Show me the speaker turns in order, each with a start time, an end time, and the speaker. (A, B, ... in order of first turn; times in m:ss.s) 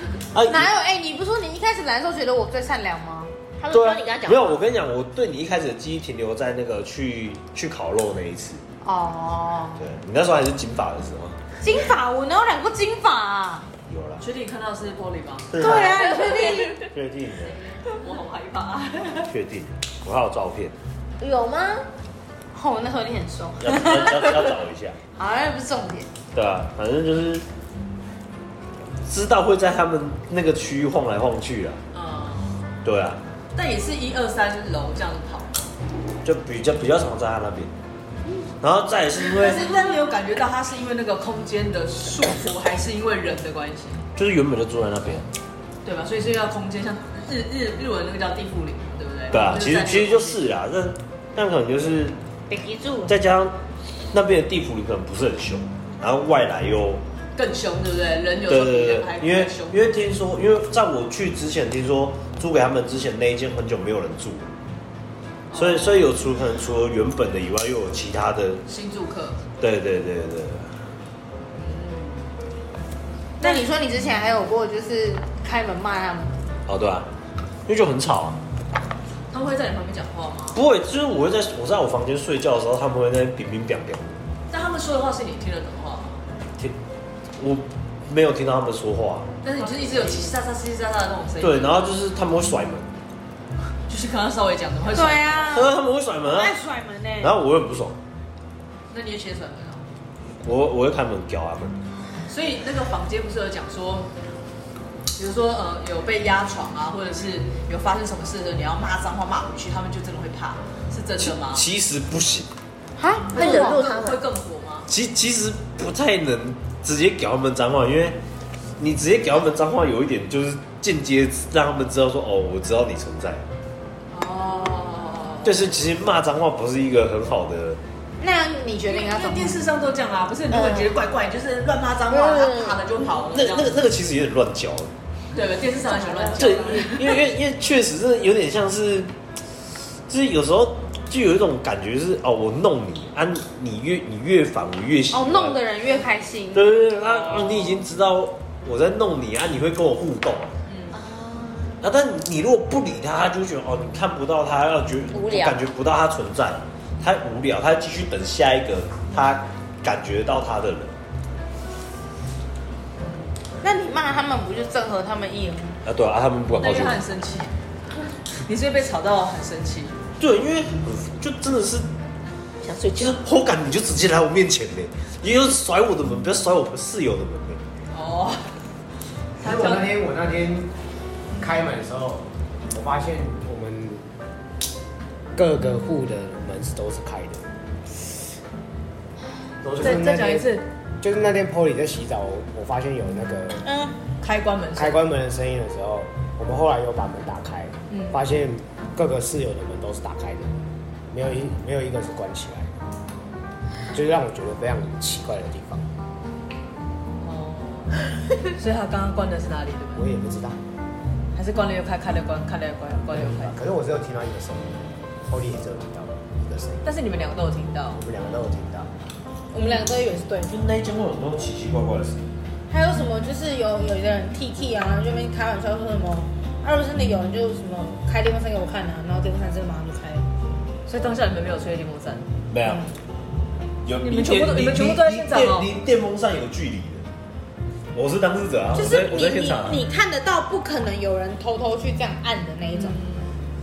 0:00.3-0:00.7 A
0:00.4-0:03.4 B
0:03.6-0:04.6 C
0:03.7-0:08.6 A
0:08.8-0:09.8 B
0:09.8-0:11.4 A
0:11.6-0:13.7 B
0:13.9-0:14.2 A
0:14.2-0:16.0 D
0:15.5-0:17.6 A
0:15.6-0:16.9 B
0:17.8-0:19.3 D
0:19.2-0:20.7 A
0:21.2-0:21.9 C
0:22.5-0:24.5 B
0:23.6-0:25.0 A
0:25.1-0:26.1 B
0:26.3-0:27.4 A
0:29.0-0:31.8 A
0:31.9-0:32.7 D
0:32.8-0:33.2 A
0:33.5-0:35.7 D
0:36.2-0:37.7 A
0:38.6-0:39.7 A
0:39.3-0:44.0 D
0:44.1-0:45.3 A
0:45.8-0:50.4 D
0:49.3-0:52.1 A
0:52.5-0:53.1 B
0:53.1-0:53.5 A
0:54.1-0:57.0 A
0:57.4-0:59.9 D
0:58.5-1:04.5 A
1:05.5-1:06.0 D
1:05.5-1:08.6 A
1:08.6-1:09.4 D
1:09.6-1:10.7 A
1:11.5-1:12.3 D
1:13.4-1:16.4 B
1:16.7-1:17.1 A
1:17.7-1:18.4 A
1:19.3-1:20.6 D
1:20.5-1:24.1 A
1:24.5-1:26.2 D
1:27.4-1:29.3 A
1:29.4-1:31.9 D
1:31.4-1:32.9 A
1:33.9-1:35.6 D
1:34.9-1:37.3 B
1:35.5-1:36.6 A
1:37.2-1:38.0 A
1:38.9-1:39.9 D
1:40.4-1:41.7 A
1:42.3-1:44.1 D
1:45.1-1:51.6 D
1:51.2-1:52.5 A
1:53.0-1:53.8 B
1:53.3-1:54.2 C
1:53.3-1:54.9 D
1:54.9-1:58.2 A
1:58.8-2:03.4 A
2:04.1-2:05.6 D
2:05.4-2:07.8 A
2:08.2-2:09.6 B
2:08.9-2:13.8 D
2:12.1-2:12.4 B
2:13.2-2:14.9 A
2:15.3-2:17.2 D
2:16.2-2:16.6 B
2:16.3-2:19.1 A
2:20.1-2:25.6 A
2:25.1-2:26.6 B
2:26.5-2:30.5 A
2:27.0-2:27.8 D
2:30.6-2:31.0 D
2:30.9-2:31.8 C
2:31.8-2:40.9 A
2:35.1-2:35.6 B
2:43.6-2:45.8 B
2:45.8-2:47.0 A
2:46.6-2:47.6 D
2:48.4-2:50.0 D
2:50.2-2:51.8 A
2:52.6-2:53.2 C
2:52.9-2:57.6 A
2:57.9-2:58.5 D
2:59.4-2:59.9 D
2:59.4-3:00.7 E
3:01.4-3:04.0 E
3:05.3-3:07.4 E
3:09.6-3:13.7 E
3:09.8-3:10.7 D
3:13.6-3:14.0 B
3:14.2-3:15.0 D
3:14.8-3:20.5 E
3:17.9-3:18.2 D
3:21.1-3:22.7 E
3:23.9-3:25.9 E
3:27.2-3:30.0 D
3:30.0-3:30.6 E
3:31.3-3:33.6 D
3:33.1-3:36.8 E
3:36.8-3:38.0 D
3:38.0-3:38.9 E
3:39.5-3:40.6 B
3:40.4-3:42.2 A
3:42.7-3:50.3 B
3:50.9-3:52.3 D
3:52.5-3:52.8 A
3:52.6-3:52.9 B
3:53.8-3:57.1 A
3:54.0-3:55.7 D
3:57.9-3:59.8 A
3:58.7-4:03.0 B
4:02.7-4:03.3 D